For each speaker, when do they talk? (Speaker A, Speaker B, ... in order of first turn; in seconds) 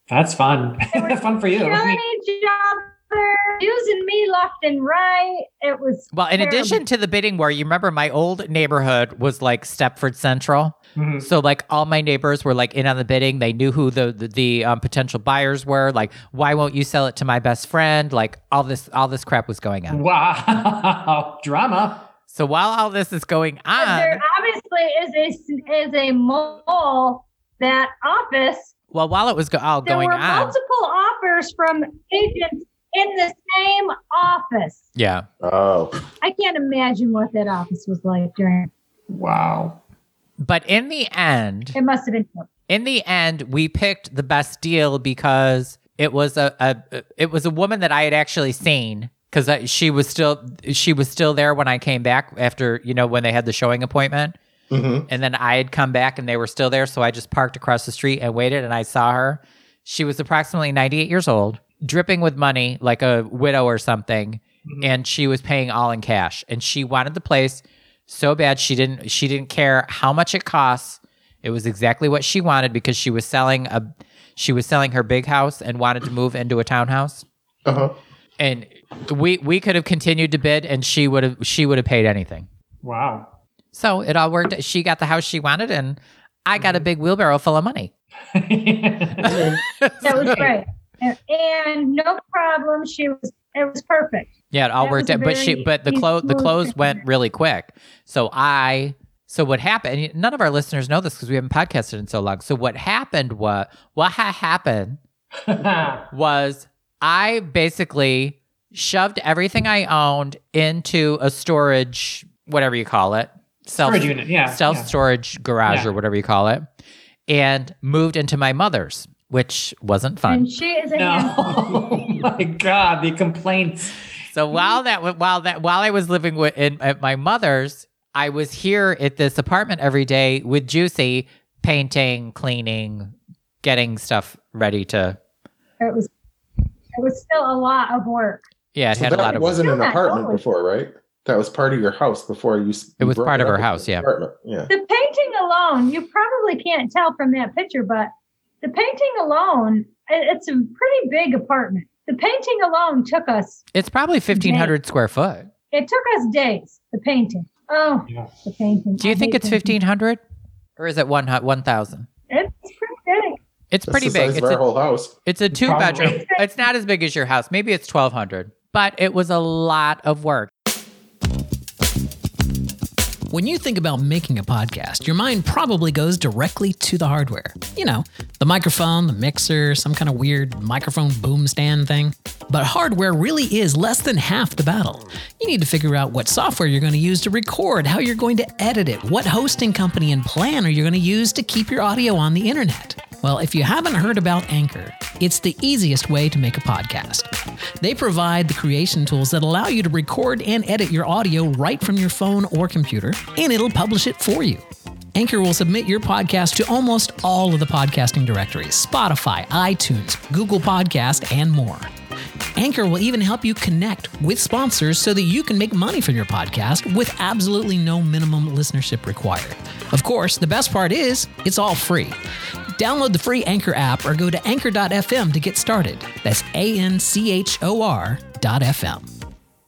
Speaker A: 0.1-2.0, 11.0-11.3, 19.9-22.1, 39.1-39.8, 64.7-64.9, 82.8-83.3, 88.3-89.6, 105.5-106.1, 113.8-114.9, 115.7-115.9, 121.0-124.0, 165.5-166.2
Speaker B: 0.9-6.8, 23.8-28.7, 29.8-34.8, 36.2-38.7, 41.8-42.5, 90.0-97.0, 120.3-121.6, 135.8-136.1, 136.9-138.4, 139.6-140.4, 144.7-148.1, 148.6-153.6, 154.3-154.8, 155.7-159.7, 162.3-163.4, 165.9-166.6
Speaker C: 6.1-20.0, 22.3-24.2, 28.9-30.6, 35.0-35.3, 40.4-41.8, 42.7-54.4, 55.1-77.2, 78.4-82.5, 83.7-87.9, 89.2-90.4, 94.5-105.0, 106.1-116.7, 117.3-120.5, 124.3-135.2, 138.8-139.6, 143.0-144.1, 153.7-155.5, 159.0-160.2, 160.8-162.1, 163.7-164.6, 165.3-170.5
Speaker D: 35.4-35.9, 54.7-55.1, 77.7-77.9, 89.3-89.5, 138.9-144.7, 163.9-165.2
Speaker E: 173.3-211.9, 212.6-222.2, 222.8-229.1